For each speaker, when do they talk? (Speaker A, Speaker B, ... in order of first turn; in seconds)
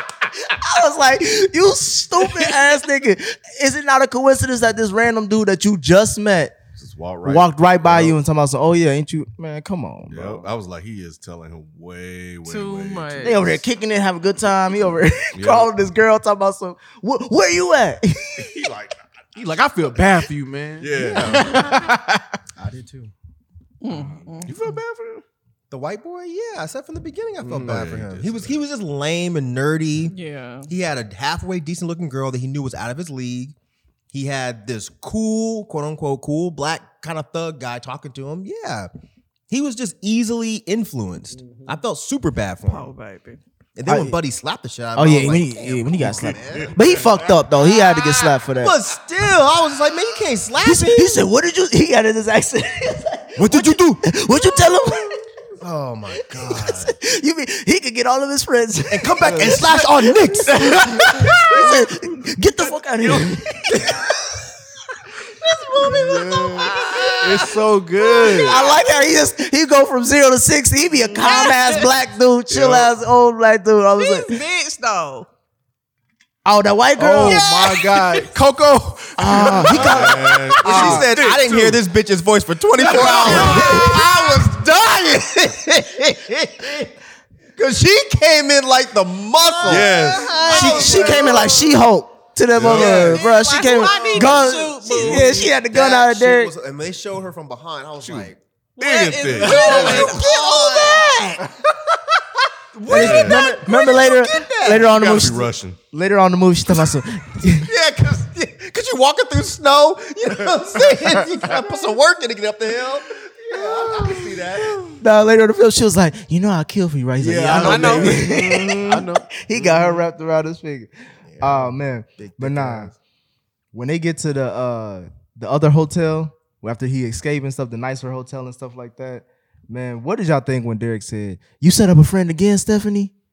Speaker A: 0.4-6.6, 7.2-10.5, 13.2-18.6, 43.9-44.2, 44.9-48.8, 50.6-55.2, 56.3-64.4, 65.6-74.4, 76.4-77.5, 79.2-81.1, 82.8-84.0, 90.5-96.5, 99.8-101.1, 102.9-107.7, 115.0-122.9, 123.7-133.1
Speaker B: 6.8-8.2, 10.1-13.6, 15.3-15.7, 18.4-19.0, 20.8-21.6, 24.4-25.2, 27.6-28.6, 79.7-81.7, 89.6-90.4, 92.5-93.2, 98.0-100.2, 102.9-103.5, 104.8-105.8
Speaker C: 12.5-13.4, 23.8-24.6, 30.1-30.7, 42.6-43.4, 47.6-48.2, 65.4-67.5, 68.0-68.8, 71.1-71.9, 74.0-75.3, 77.3-78.3, 83.3-83.8, 89.5-91.5, 92.8-95.4, 98.8-101.0, 117.6-118.2
Speaker D: 19.4-22.4, 27.4-27.9, 41.4-41.8, 60.6-61.2, 65.9-68.6, 72.5-72.9, 77.0-81.7, 82.8-84.0, 90.8-91.2, 99.4-100.0, 113.5-114.3, 117.2-120.0
Speaker E: 21.0-21.5, 22.6-23.1, 25.7-30.1, 30.7-33.5, 34.1-38.9, 39.5-42.9, 43.8-46.8, 48.6-51.2, 53.4-54.0, 55.6-57.0, 58.9-60.6, 79.8-86.9, 87.6-91.6, 93.9-98.4, 99.5-101.4, 102.7-105.2, 107.4-114.9, 121.3-123.0